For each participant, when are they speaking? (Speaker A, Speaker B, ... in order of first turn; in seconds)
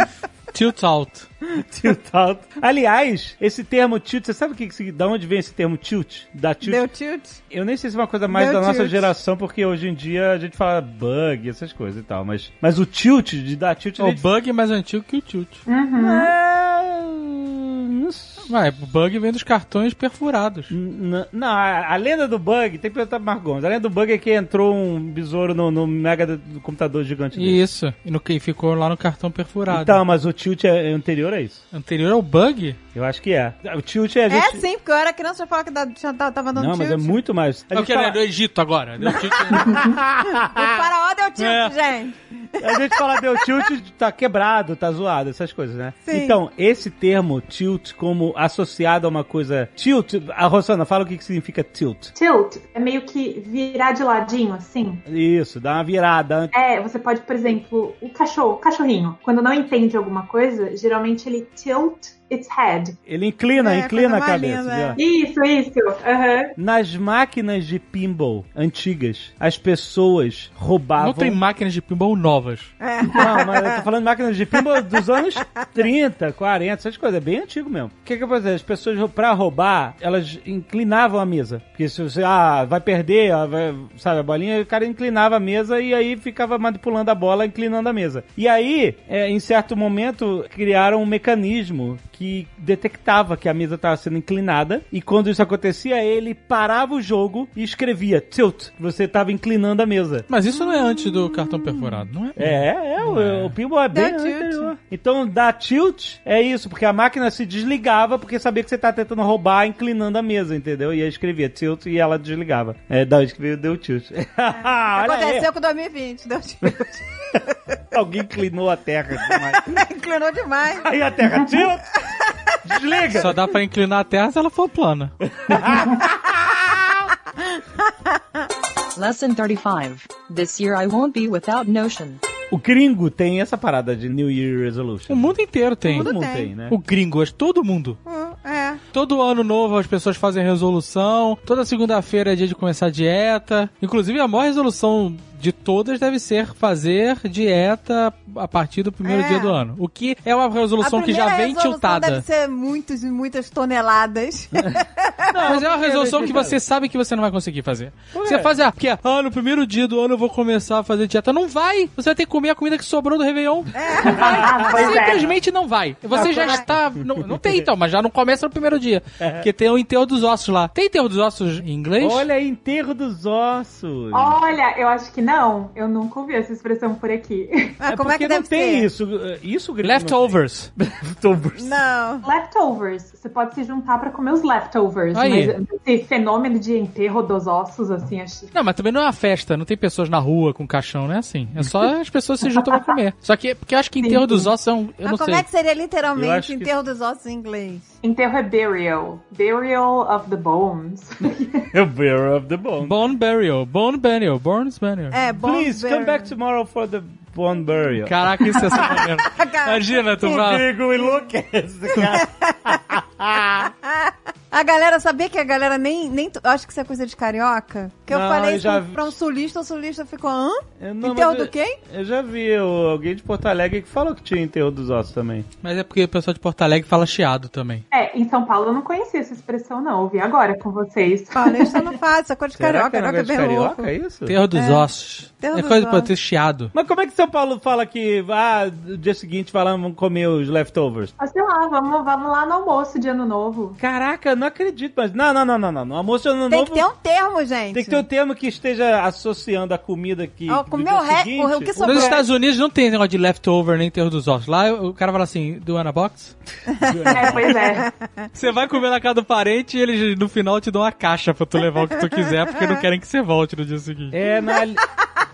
Speaker A: 0.5-1.3, 14.0-15.6, 18.5-20.7, 27.4-30.0, 31.7-32.8, 37.7-39.9, 41.4-41.8, 71.0-72.7, 100.3-103.5, 123.1-125.1, 135.1-136.1, 136.7-138.0, 138.9-152.2, 155.5-172.3, 179.8-180.7, 185.1-185.6, 188.5-195.4, 202.8-205.2, 208.1-210.7, 225.6-227.8, 234.3-236.7, 251.8-256.4, 258.3-264.2
Speaker B: 1.5-6.8, 7.5-14.2, 16.0-18.5, 20.7-27.6, 29.7-31.6, 33.0-34.6, 36.5-38.2, 39.6-40.8, 42.6-52.1, 55.1-56.5, 63.1-65.0, 66.6-71.4, 73.2-100.3, 102.4-115.5, 117.9-119.8, 120.8-122.0, 122.6-123.3, 125.4-127.1, 132.5-135.3, 135.9-136.8, 155.3-156.6, 158.1-158.5, 164.2-165.2, 166.1-167.5, 169.2-169.5, 172.0-174.4, 177.9-181.8, 196.1-196.7, 201.7-203.0, 205.4-209.0, 210.3-213.7, 218.1-219.1, 220.8-225.5, 232.6-234.4, 236.7-241.1, 243.8-246.9, 247.7-252.2, 256.8-257.6, 264.1-264.9
Speaker C: 6.6-7.4, 8.3-9.1, 34.3-37.2, 39.5-43.7, 46.1-46.4, 63.6-65.0, 72.8-73.8, 100.5-102.0, 103.9-104.7, 114.6-117.8, 119.2-120.9, 122.1-122.4, 127.6-128.5, 135.8-136.5, 138.1-138.8, 149.0-149.6, 150.8-155.6, 163.8-164.4, 166.2-166.7, 177.8-178.9, 181.6-182.3, 195.0-197.9, 205.1-206.3, 209.2-210.5, 211.9-213.0, 213.6-221.8, 231.3-233.9, 234.5-234.9, 235.4-236.1, 246.5-248.1, 250.5-252.3, 256.8-258.3, 262.6-262.8
Speaker D: 15.7-16.3, 52.1-55.0, 56.5-63.0, 65.0-66.6, 125.7-126.0, 164.0-165.3, 174.1-177.8, 182.2-188.5, 194.0-194.5, 198.0-201.7, 227.9-231.9, 241.2-243.8, 257.1-257.9
Speaker E: 128.9-132.2